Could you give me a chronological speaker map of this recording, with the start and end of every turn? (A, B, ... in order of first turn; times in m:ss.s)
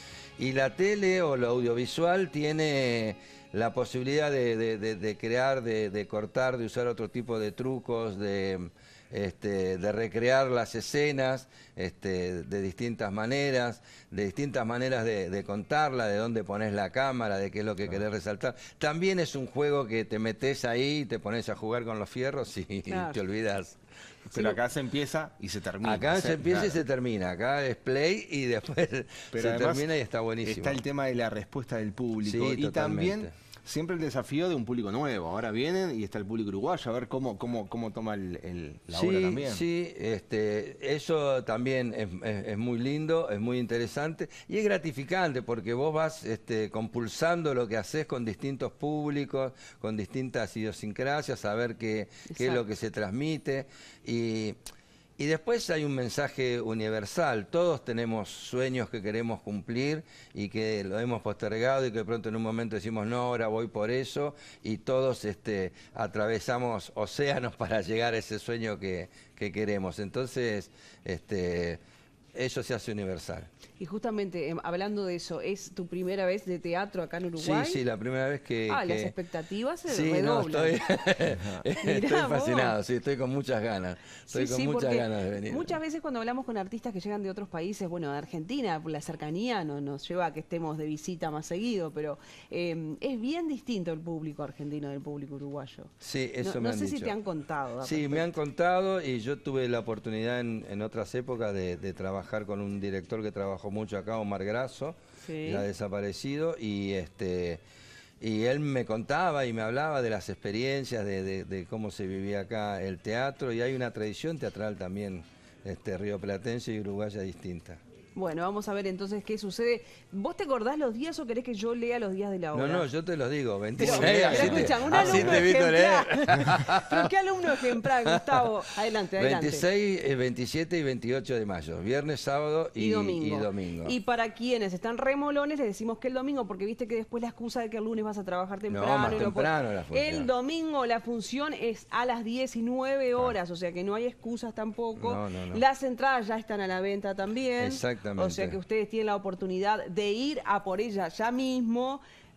0:00.4-0:23.8 A
0:22.9-0:23.2 B
0:24.3-0:26.8 C
0:25.8-0:30.8 A
0:29.3-0:29.9 C
0:30.4-0:39.6 C
0:32.2-0:33.3 A
0:38.9-0:54.6 A
0:52.3-0:52.6 B
0:55.2-1:11.8 A
1:12.4-1:13.5 A
1:13.8-1:17.8 B
1:17.4-1:19.1 A
1:18.7-1:20.8 B
1:19.9-1:25.8 A
1:21.2-1:21.6 C
1:21.8-1:22.8 B
1:24.3-1:38.4 B
1:36.0-1:37.2 A
1:37.8-1:47.6 A
1:45.2-1:45.7 B
1:48.2-1:57.8 A
1:58.2-2:02.9 B
2:02.5-2:08.4 A
2:03.8-2:05.5 C
2:03.8-2:09.6 B
2:09.2-2:14.0 A
2:12.8-2:32.0 B
2:18.7-2:20.3 A
2:25.0-2:25.6 A
2:27.6-2:28.6 A